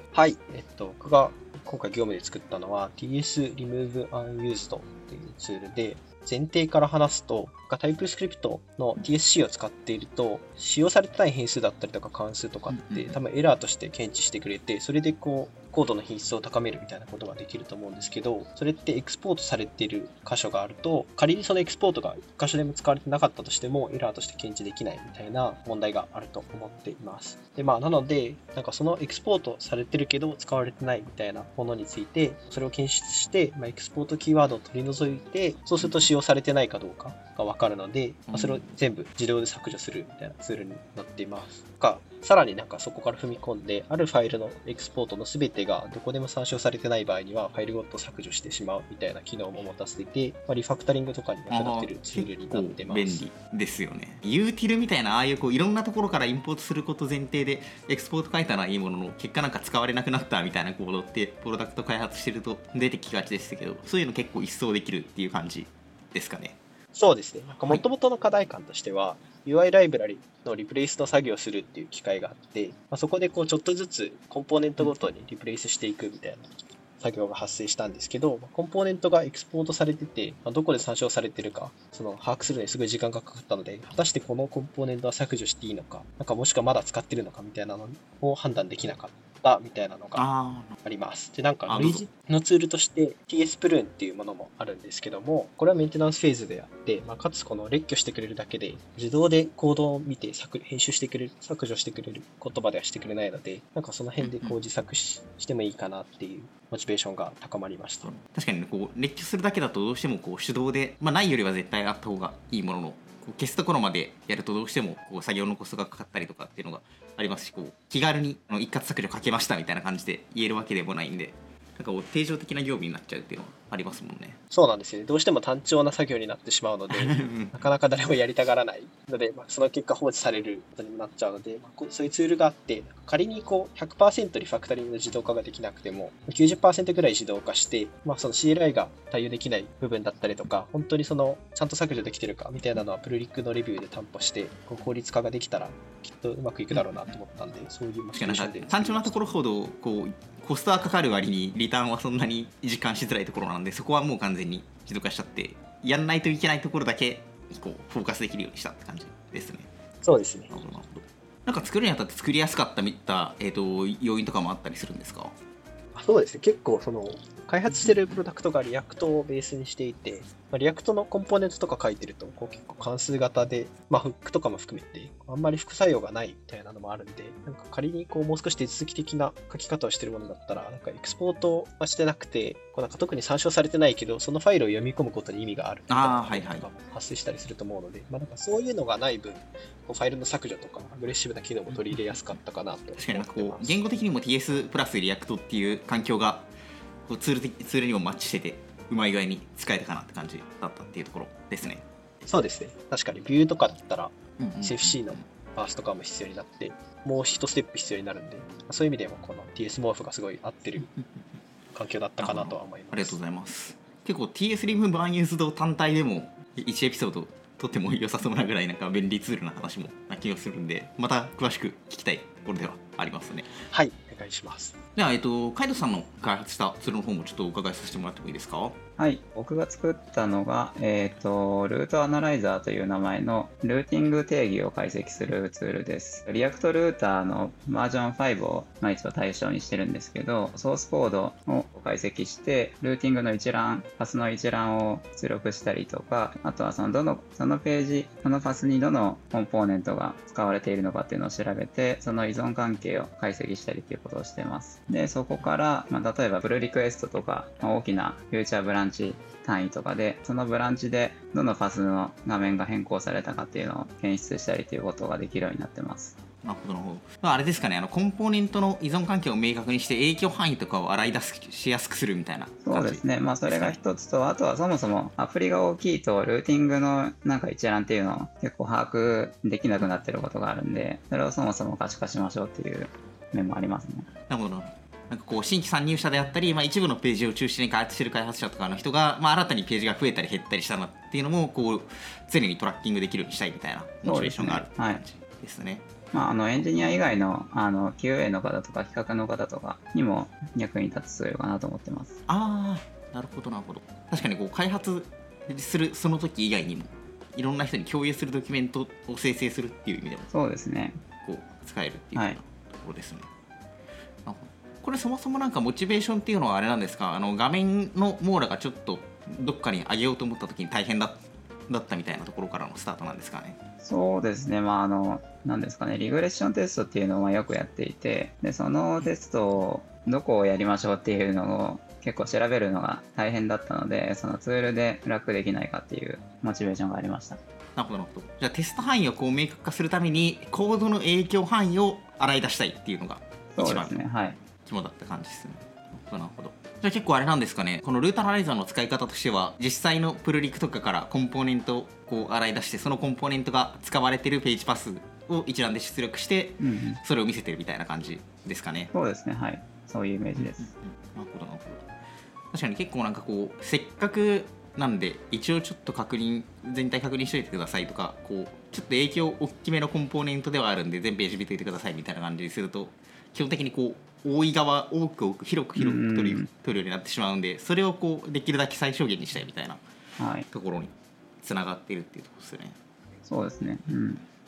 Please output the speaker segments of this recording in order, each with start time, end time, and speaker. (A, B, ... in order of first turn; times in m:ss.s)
0:00.1-0:53.2 A
0:12.7-0:13.2 B
0:35.8-0:36.1 B
0:38.3-0:38.7 B
0:51.5-1:06.6 B
1:06.9-1:30.2 A
1:30.1-1:30.8 B
1:30.8-1:48.2 A
1:31.7-1:32.1 B
1:44.2-1:44.6 B
1:48.0-2:04.4 B
2:04.5-2:29.4 A
2:06.9-2:07.6 B
2:26.7-2:27.1 B
2:28.1-2:39.7 B
2:40.0-2:40.5 A
2:40.5-2:45.3 B
2:46.0-3:13.8 A
2:47.7-2:48.2 B
3:05.9-3:06.7 B
3:11.7-3:12.2 B
3:13.0-3:16.5 B
3:17.1-3:21.8 B
3:22.2-3:30.9 A
3:24.4-3:25.2 B
3:30.8-3:31.2 B
3:31.7-3:33.2 A
3:32.2-3:43.6 B
3:43.7-3:44.8 A
3:45.0-3:48.8 B
3:49.0-4:26.2 C
4:26.4-4:33.8 B
4:32.6-4:44.1 C
4:44.3-4:55.9 B
4:54.0-4:55.0 C
4:56.1-5:02.2 C
4:56.5-4:57.0 B
5:02.3-5:10.3 B
5:10.3-5:11.0 C
5:11.2-5:13.3 B
5:14.2-5:23.6 B
5:23.8-5:37.4 C
5:37.8-5:44.0 B
5:43.5-5:44.4 C
5:44.6-5:58.9 B
5:56.6-5:57.0 C
5:58.9-6:00.7 C
6:00.4-6:01.8 B
6:02.5-6:19.8 B
6:15.8-6:16.5 C
6:20.2-6:20.5 C
6:20.5-6:22.8 B
6:23.2-6:24.2 C